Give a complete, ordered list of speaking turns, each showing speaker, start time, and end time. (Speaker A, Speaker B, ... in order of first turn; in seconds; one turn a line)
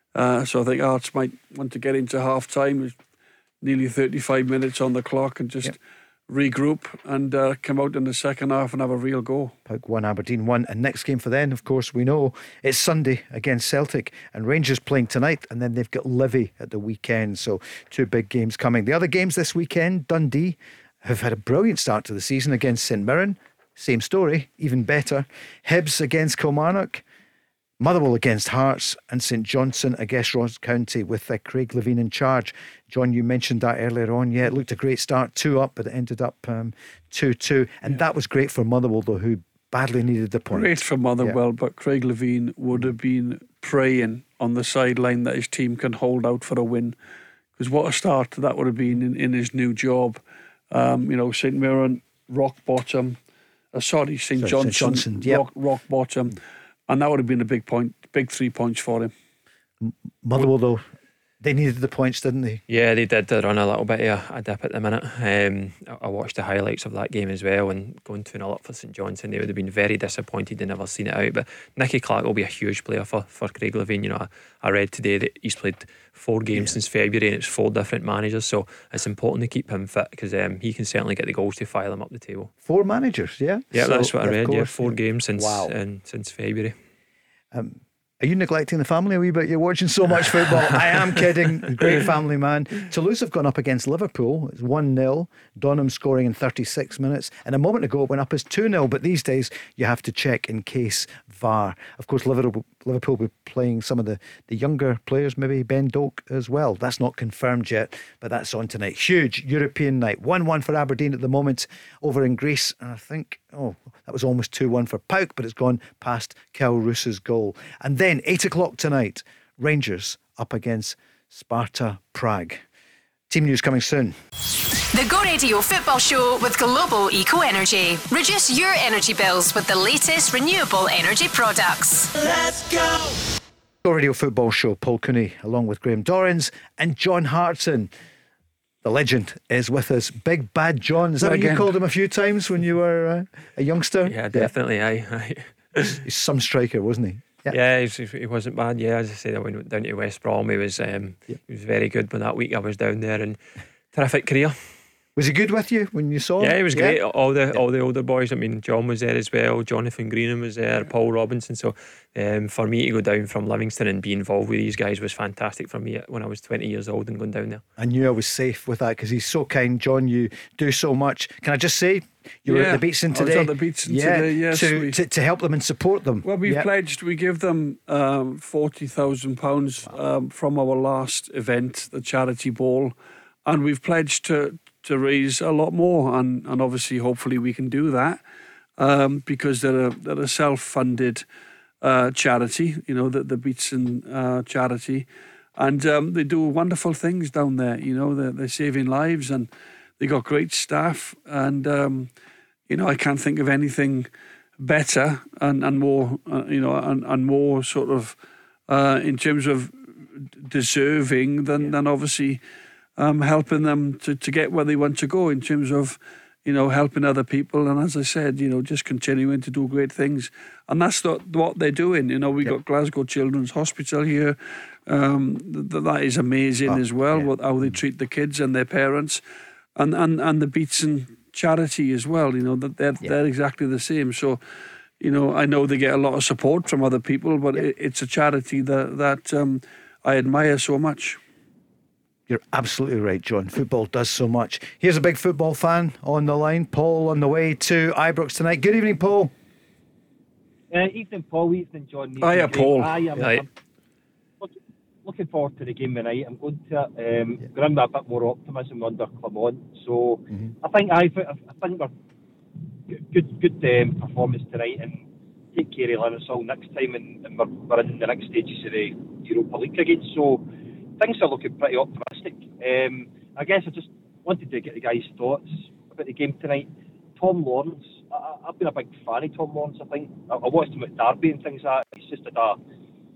Speaker A: 0.1-3.0
Speaker A: 3.6-5.8
Speaker A: 6.3-9.5
Speaker B: 9.7-27.0
Speaker B: 27.8-41.4
Speaker A: 40.5-46.9
Speaker A: 47.6-53.2
Speaker A: 53.7-59.1
Speaker B: 54.4-55.4
Speaker B: 59.8-60.9
Speaker B: 61.4-62.6
Speaker C: 62.7-82.5
Speaker B: 82.6-85.7
Speaker C: 83.7-86.8
Speaker B: 87.5-122.6
Speaker B: 123.3-124.2
Speaker D: 124.9-132.1
Speaker B: 133.8-137.9
Speaker B: 138.8-144.5
Speaker A: 141.2-141.7
Speaker C: 144.1-146.0
Speaker B: 146.0-147.6
Speaker C: 147.5-153.4
Speaker C: 153.9-154.6
Speaker B: 155.2-157.0
Speaker C: 156.4-167.6
Speaker B: 167.8-176.7
Speaker A: 172.5-175.0
Speaker A: 176.2-182.9
Speaker A: 183.4-188.2
Speaker A: 188.8-191.2
Speaker A: 191.8-195.1
Speaker A: 195.6-199.5
Speaker A: 200.0-202.1
Speaker A: 202.7-204.1
Speaker A: 204.6-208.2
Speaker A: 208.7-212.4
Speaker A: 213.0-229.2
Speaker B: 226.7-227.3
Speaker A: 229.8-234.4
Speaker A: 235.0-241.2
Speaker B: 242.3-249.3
Speaker E: 250.7-253.5
Speaker A: 252.2-253.1
Speaker C: 253.2-253.4
Speaker E: 254.4-261.9
Speaker E: 262.9-265.0
Speaker E: 265.5-270.5
Speaker E: 271.0-282.6